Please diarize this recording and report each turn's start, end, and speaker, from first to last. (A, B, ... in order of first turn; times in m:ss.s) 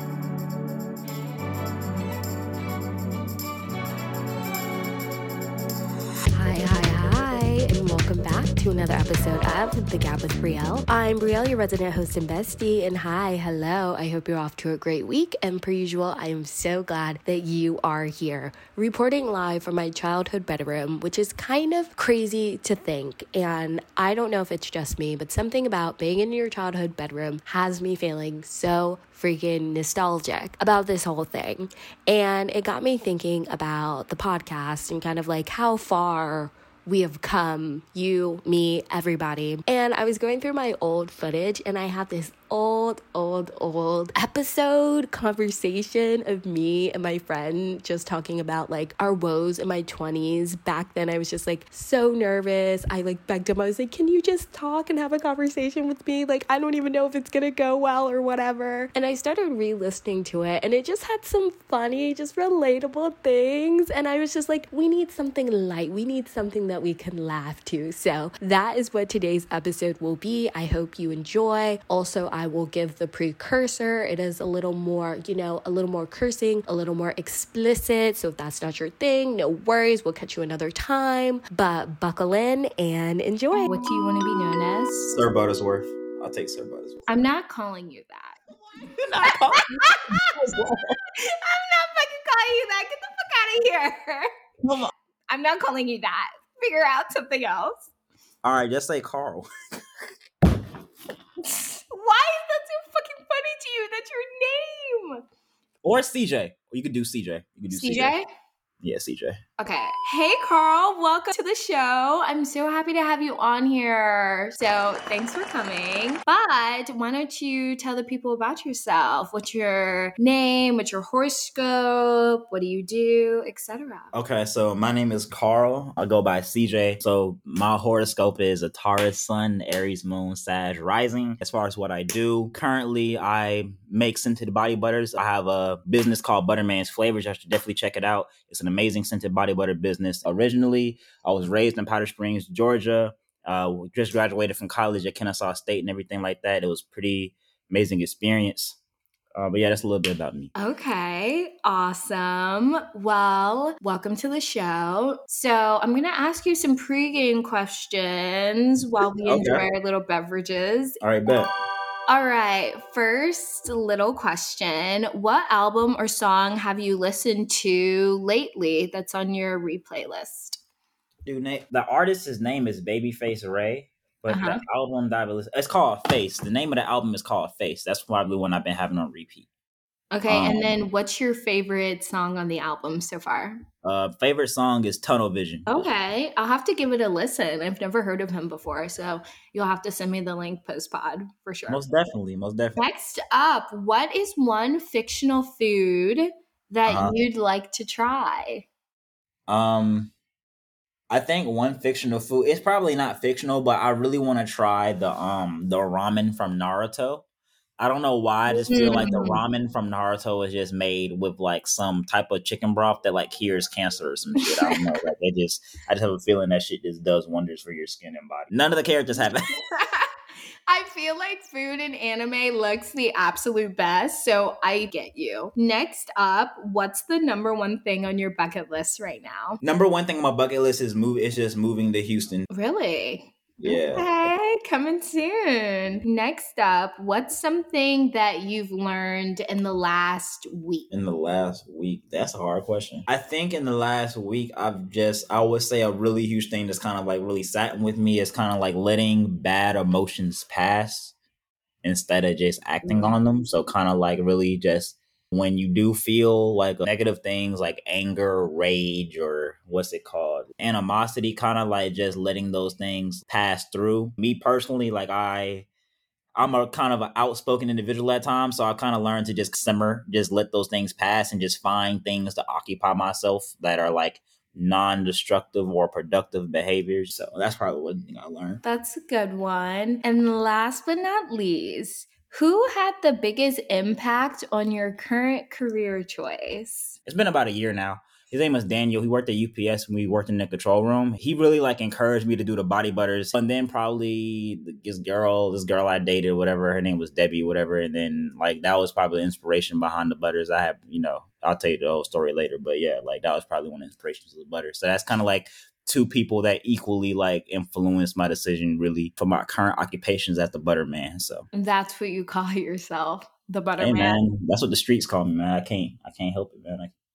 0:06.3-1:23.8 A
1:23.6-1:25.2 B
1:25.1-1:27.1 C
1:27.1-1:28.4 B
1:28.9-1:31.0 C
1:29.2-1:30.3 B
1:31.1-1:34.3 B
1:34.6-1:34.9 C
1:35.3-1:37.9 B
1:38.4-1:39.5 C
1:41.4-1:45.2 B
1:45.8-1:48.1 C
1:47.7-1:48.2 B
1:48.8-1:49.4 C
1:49.6-2:04.1 B
2:04.1-2:28.8 C
2:29.4-2:30.5 C
2:30.6-2:41.0 B
2:39.2-2:39.6 C
2:41.0-2:41.5 C
2:42.1-2:50.6 B
2:51.2-2:59.5 C
2:54.3-2:54.6 B
3:00.1-3:03.6 B
3:00.3-3:00.7 C
3:03.8-3:05.9 C
3:05.7-3:11.8 B
3:11.7-3:12.8 C
3:12.8-3:18.6 B
3:16.8-3:17.1 C
3:19.5-3:20.1 C
3:21.1-3:27.2 C
3:27.8-3:39.5 C
3:28.5-3:29.4 B
3:39.7-3:40.1 B
3:40.7-3:49.6 B
3:49.6-3:52.5 C
3:52.5-4:00.9 B
3:53.6-3:54.1 C
4:00.9-4:11.1 C
4:11.8-4:25.7 C
4:12.8-4:13.1 B
4:26.4-4:38.6 C
4:38.6-4:47.0 B
4:47.0-5:11.5 C
5:11.5-5:14.2 B
5:13.8-5:16.9 C